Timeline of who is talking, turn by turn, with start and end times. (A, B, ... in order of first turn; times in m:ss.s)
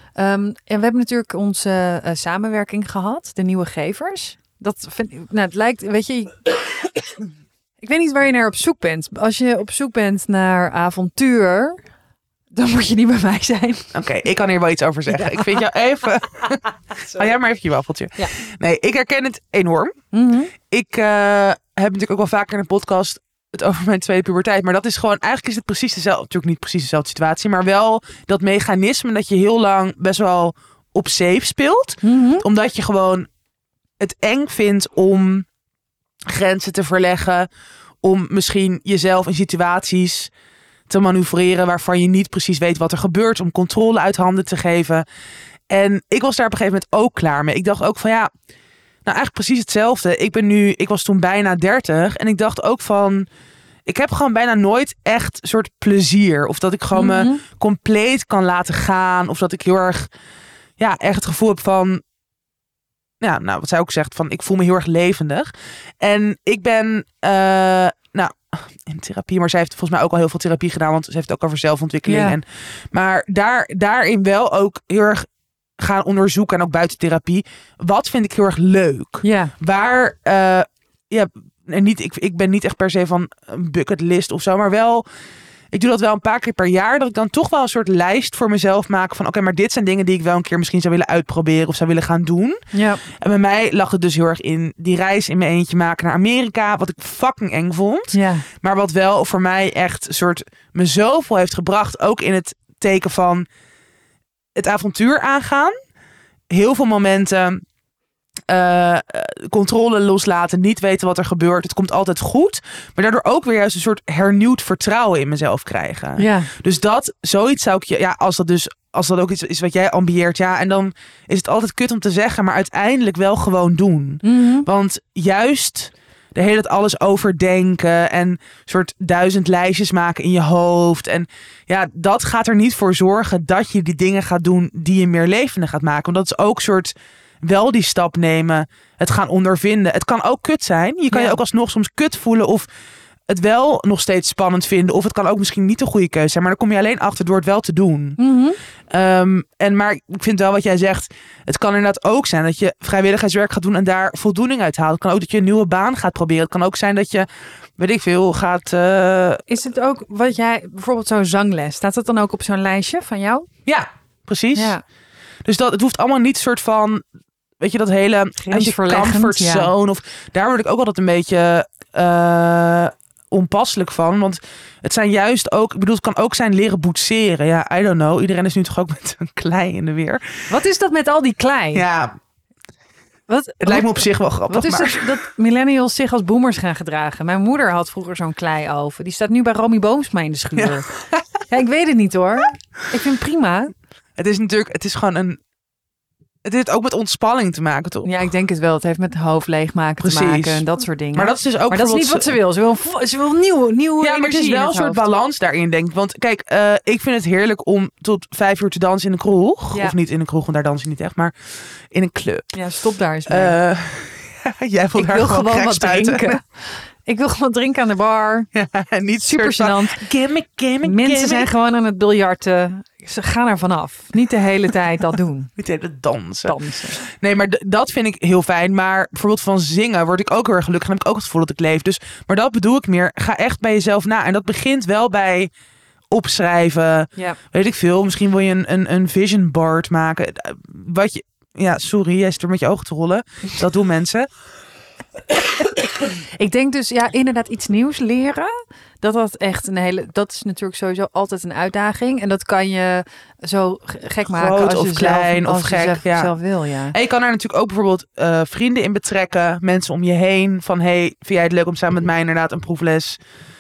0:00.2-0:06.5 A
0:07.8-0:11.8 A
0:12.5-0:13.9 A
0:13.9-0:19.9 B
0:15.1-0:15.6 A
0:16.9-0:17.3 A
0:20.1-0:20.5 A
0:20.6-0:33.3 B
0:32.0-0:32.4 A
0:34.0-0:35.5 B
0:36.3-0:37.5 B
0:38.0-0:40.3 B
0:40.9-0:45.0 B
0:45.7-0:48.3 B
0:49.0-0:53.3 B
0:53.8-1:00.1 B
0:56.9-0:57.4 A
1:00.8-1:02.0 B
1:03.2-1:15.2 B
1:12.0-1:12.4 A
1:15.8-1:25.0 B
1:19.2-1:19.5 A
1:25.7-1:43.4 B
1:32.7-1:33.0 A
1:38.1-1:38.5 A
1:44.5-1:45.7 B
1:46.5-1:47.6 B
1:48.5-2:22.6 B
1:56.2-1:56.5 A
2:04.2-2:04.7 A
2:21.1-2:21.4 A
2:23.3-2:28.2 B
2:28.2-2:28.6 A
2:28.9-2:39.4 B
2:39.5-2:43.5 A
2:43.6-2:44.8 B
2:44.5-2:44.8 A
2:45.4-2:47.0 B
2:47.6-3:00.2 B
2:48.4-2:49.7 A
3:00.5-3:01.8 A
3:01.7-3:02.2 B
3:03.3-3:10.9 A
3:03.6-3:05.1 B
3:10.6-3:11.4 B
3:11.5-3:13.7 A
3:14.2-3:15.4 B
3:16.4-3:18.1 B
3:18.0-3:25.0 A
3:20.0-3:22.3 B
3:24.0-3:31.3 B
3:29.7-3:30.0 A
3:31.9-3:32.5 B
3:32.5-3:33.6 A
3:33.3-3:36.4 B
3:35.0-3:38.5 A
3:38.5-3:41.5 B
3:39.2-3:40.0 A
3:40.8-3:45.5 A
3:45.6-3:55.5 B
3:46.4-3:47.0 A
3:56.1-4:04.3 B
4:05.6-4:17.0 A
4:14.3-4:16.3 B
4:16.9-4:23.2 B